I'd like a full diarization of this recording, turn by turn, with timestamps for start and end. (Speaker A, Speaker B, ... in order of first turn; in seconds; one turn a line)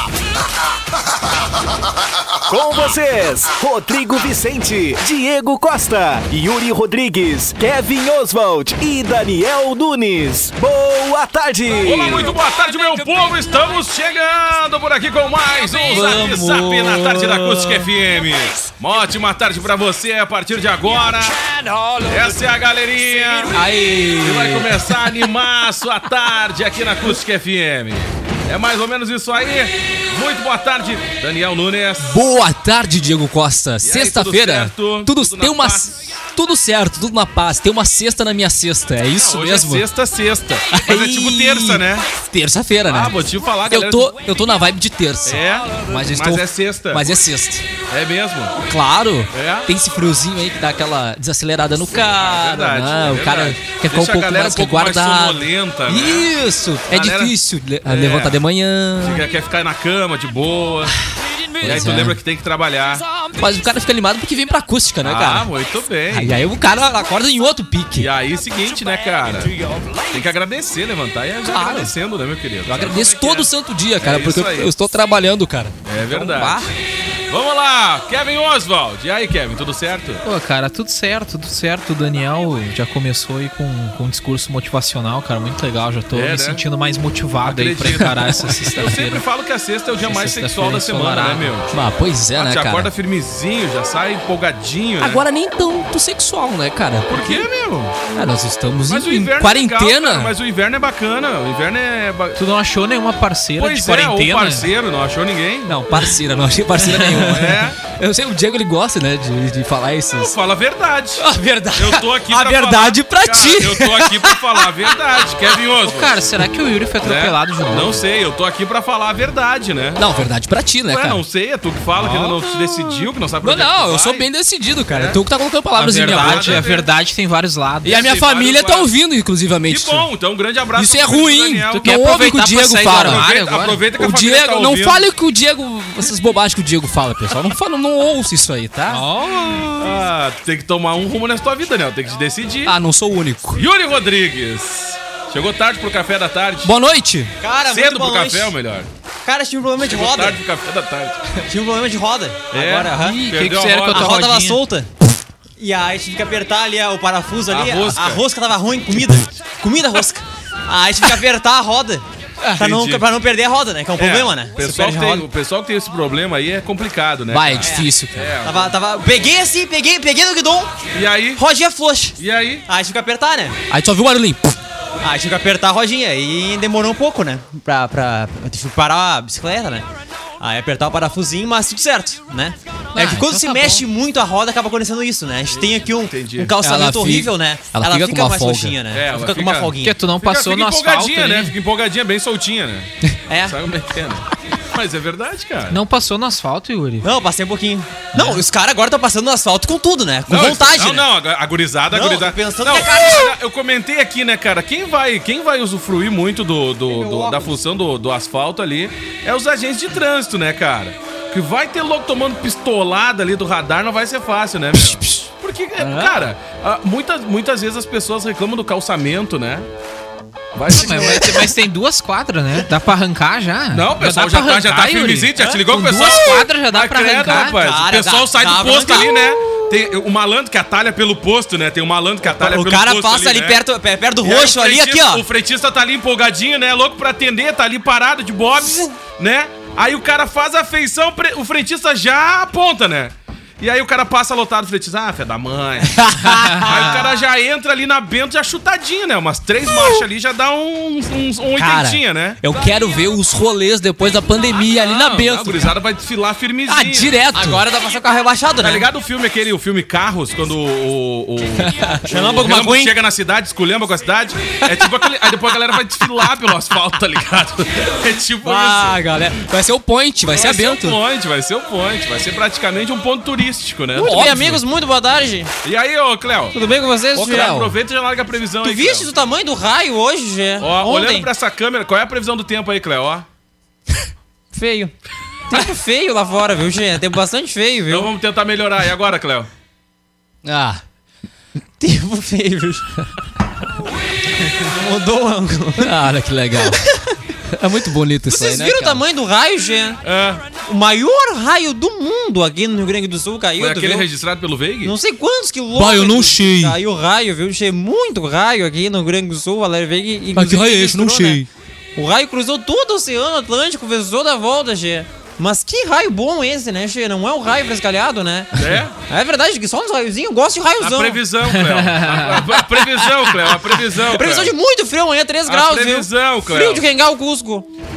Speaker A: 2.4-12.3
Speaker B: 11.8-21.4
Speaker C: 15.7-17.9
Speaker B: 22.1-32.1
Speaker C: 23.5-25.0
Speaker C: 32.0-39.9
Speaker B: 33.8-36.1
Speaker B: 39.1-42.0
Speaker C: 40.7-47.6
Speaker B: 42.8-44.1
Speaker B: 45.2-47.1
Speaker B: 47.9-48.6
Speaker C: 48.6-59.2
Speaker B: 49.3-49.7
Speaker B: 52.1-56.3
Speaker B: 56.9-57.3
Speaker B: 57.8-58.4
Speaker B: 59.0-61.0
Speaker C: 61.6-62.2
Speaker B: 61.6-63.0
Speaker C: 63.4-65.5
Speaker B: 65.0-66.4
Speaker C: 66.1-68.1
Speaker B: 67.9-69.5
Speaker B: 70.1-74.7
Speaker C: 71.4-71.9
Speaker C: 72.6-76.7
Speaker B: 75.8-76.7
Speaker B: 77.3-80.2
Speaker D: 80.2-89.2
Speaker B: 86.1-86.6
Speaker B: 87.4-91.7
Speaker D: 90.0-91.5
Speaker C: 91.7-92.9
Speaker B: 92.3-95.2
Speaker C: 95.0-97.5
Speaker B: 97.1-98.0
Speaker C: 98.1-100.3
Speaker B: 98.9-102.4
Speaker D: 102.3-104.7
Speaker B: 103.6-105.8
Speaker C: 105.7-110.3
Speaker B: 106.7-107.8
Speaker B: 110.1-116.2
Speaker C: 111.2-115.0
Speaker D: 115.8-118.0
Speaker B: 117.0-120.3
Speaker C: 120.0-121.2
Speaker B: 120.8-124.3
Speaker C: 122.0-126.6
Speaker B: 124.9-125.2
Speaker D: 125.8-128.0
Speaker B: 125.9-126.9
Speaker C: 127.8-130.1
Speaker B: 127.8-128.9
Speaker B: 129.7-132.0
Speaker C: 130.7-133.3
Speaker D: 131.7-133.8
Speaker B: 132.9-135.1
Speaker C: 133.9-139.1
Speaker D: 138.9-140.0
Speaker B: 139.8-142.7
Speaker C: 142.6-143.7
Speaker B: 143.5-146.7
Speaker C: 146.6-147.3
Speaker E: 147.4-148.6
Speaker B: 147.7-148.9
Speaker E: 149.2-150.4
Speaker B: 149.8-151.3
Speaker E: 151.4-153.2
Speaker B: 152.5-154.1
Speaker D: 152.9-154.6
Speaker E: 153.9-154.9
Speaker E: 155.6-162.0
Speaker B: 157.5-158.2
Speaker B: 162.6-163.0
Speaker E: 162.6-165.3
Speaker B: 163.9-168.7
Speaker C: 167.3-168.3
Speaker E: 167.6-167.9
Speaker E: 168.4-170.7
Speaker B: 170.9-171.4
Speaker E: 171.3-173.6
Speaker B: 172.2-172.6
Speaker C: 173.7-174.6
Speaker E: 175.0-179.8
Speaker E: 180.4-190.0
Speaker D: 182.9-183.8
Speaker B: 185.5-186.5
Speaker C: 186.6-188.8
Speaker B: 188.9-192.9
Speaker D: 189.8-191.5
Speaker E: 193.3-193.6
Speaker B: 193.4-195.8
Speaker D: 195.7-197.1
Speaker E: 197.0-201.1
Speaker D: 198.2-198.4
Speaker B: 200.3-219.7
Speaker E: 201.9-203.3
Speaker E: 206.9-207.5
Speaker C: 214.7-215.3
Speaker C: 215.8-216.2
Speaker B: 220.5-221.5
Speaker D: 220.7-227.6
Speaker B: 223.7-233.6
Speaker E: 225.4-225.6
Speaker E: 227.3-229.1
Speaker E: 232.2-235.2
Speaker B: 234.2-252.4
Speaker C: 245.9-247.0
Speaker C: 251.5-255.7
Speaker B: 254.7-257.1
Speaker C: 256.7-257.6
Speaker E: 257.3-258.9
Speaker B: 258.6-269.0
Speaker E: 262.0-262.9
Speaker C: 268.4-271.0
Speaker E: 268.5-268.8
Speaker B: 270.2-274.6
Speaker E: 273.9-275.5
Speaker C: 274.0-274.6
Speaker B: 275.6-276.6
Speaker E: 276.5-277.7
Speaker B: 277.1-279.1
Speaker C: 277.3-277.7
Speaker E: 278.6-281.3
Speaker B: 280.6-283.2
Speaker E: 284.5-284.9
Speaker E: 285.5-288.1
Speaker B: 287.9-289.5
Speaker C: 290.4-290.8
Speaker E: 291.8-293.1
Speaker E: 294.5-296.0
Speaker C: 295.8-296.8
Speaker E: 296.7-297.1
Speaker C: 297.5-299.0
Speaker E: 298.3-300.0
Speaker B: 300.0-300.5
Speaker E: 300.6-304.1
Speaker B: 303.6-304.9
Speaker E: 304.8-311.4
Speaker C: 305.7-306.8
Speaker C: 310.3-311.5
Speaker E: 312.0-321.2
Speaker B: 318.6-318.9
Speaker B: 320.8-324.5
Speaker D: 321.5-322.5
Speaker E: 323.9-327.7
Speaker B: 325.4-326.8